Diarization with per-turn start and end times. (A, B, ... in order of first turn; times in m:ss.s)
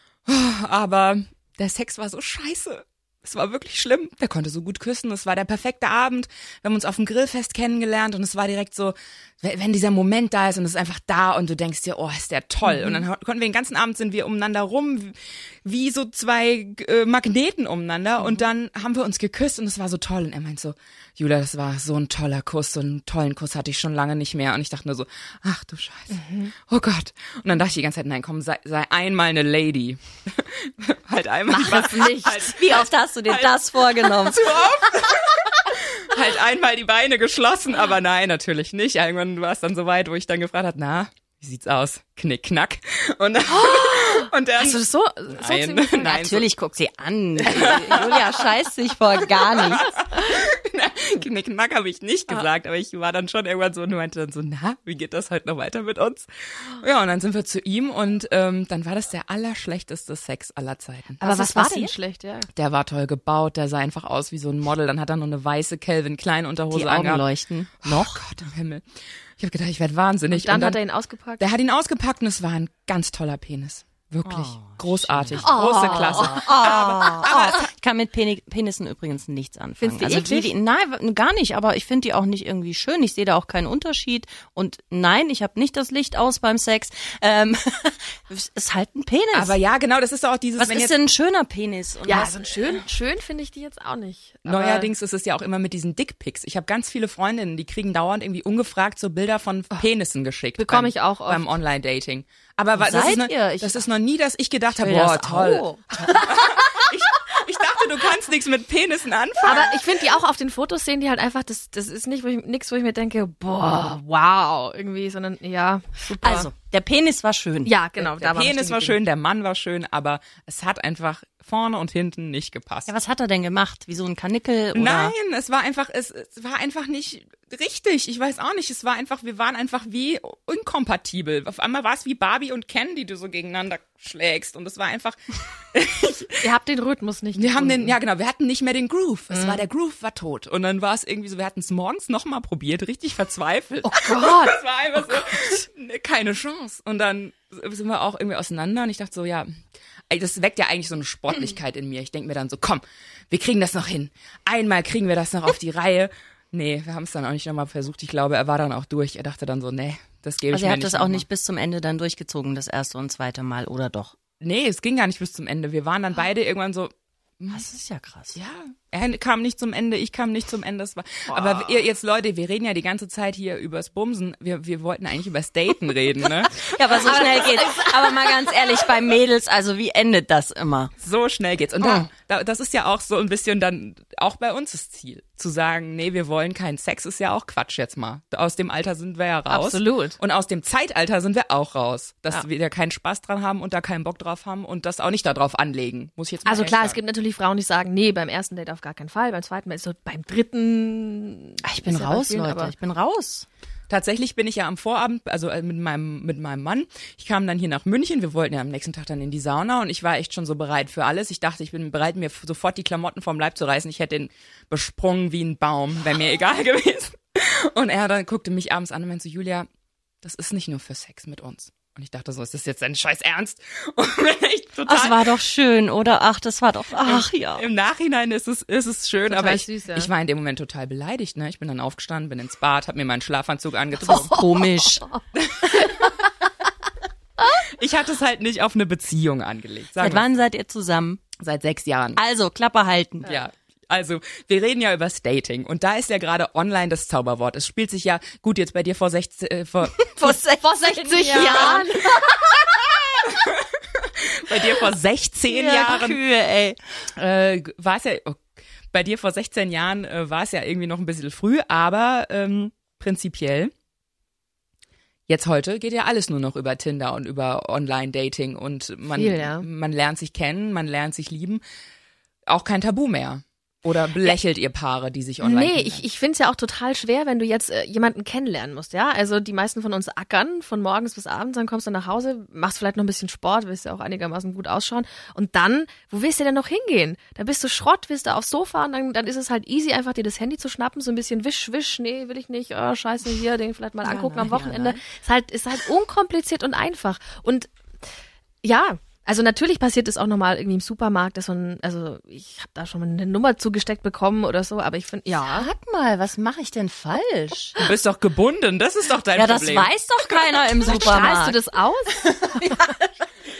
0:00.2-0:46.5 A
0:12.6-0:13.1 B
0:18.2-0:18.4 B
0:26.1-0:26.5 B
0:31.5-0:32.5 B
0:32.4-0:34.5 C
0:43.5-0:46.1 B
0:45.9-0:49.9 C
0:47.4-0:48.4 A
0:49.6-1:01.2 A
1:01.2-1:01.9 C
1:01.2-1:02.5 B
1:02.5-1:07.2 A
1:06.7-1:08.2 C
1:07.8-1:08.8 A
1:09.4-1:10.8 A
1:10.3-1:11.4 B
1:11.4-1:17.6 A
1:14.2-1:29.6 C
1:15.4-1:17.2 B
1:19.8-1:20.5 B
1:29.3-1:30.9 A
1:30.6-1:32.8 C
1:32.0-1:34.9 B
1:34.4-1:49.8 A
1:40.6-1:41.5 B
1:42.7-1:43.9 C
1:44.8-1:46.3 C
1:49.4-1:56.5 B
1:56.2-1:57.8 C
1:57.6-1:59.0 B
1:58.1-2:02.9 A
2:02.9-2:05.1 C
2:04.7-2:16.4 A
2:16.4-2:17.9 B
2:17.4-2:29.5 A
2:19.3-2:19.6 B
2:23.8-2:25.6 B
2:30.1-2:41.2 A
2:40.5-2:44.1 C
2:44.4-2:47.6 A
2:47.5-2:48.4 C
2:48.3-2:57.3 A
2:51.3-2:51.7 C
2:56.5-3:00.9 C
2:57.0-2:59.0 B
3:01.0-3:17.0 A
3:01.8-3:02.1 C
3:09.5-3:10.2 B
3:16.4-3:22.7 B
3:21.6-3:23.4 C
3:23.9-3:39.7 A
3:40.2-3:45.4 A
3:44.8-3:47.6 C
3:47.0-3:54.4 A
3:49.3-3:50.1 B
3:54.0-3:55.0 C
3:55.4-3:55.9 A
3:57.6-4:00.3 A
4:00.0-4:01.2 C
4:01.4-4:02.2 A
4:02.2-4:03.3 C
4:03.2-4:10.3 A
4:09.9-4:12.7 C
4:10.6-4:12.3 B
4:13.3-4:16.2 A
4:15.5-4:16.8 C
4:17.1-4:18.4 A
4:18.9-4:23.7 A
4:25.3-4:31.6 A
4:29.1-4:29.6 B
4:32.5-4:36.0 A
4:35.4-4:57.7 B
4:54.0-4:55.0 C
4:58.6-5:05.7 B
5:05.4-5:07.8 C
5:07.8-5:09.9 A
5:09.3-5:11.6 C
5:10.8-5:12.6 B
5:12.3-5:12.9 C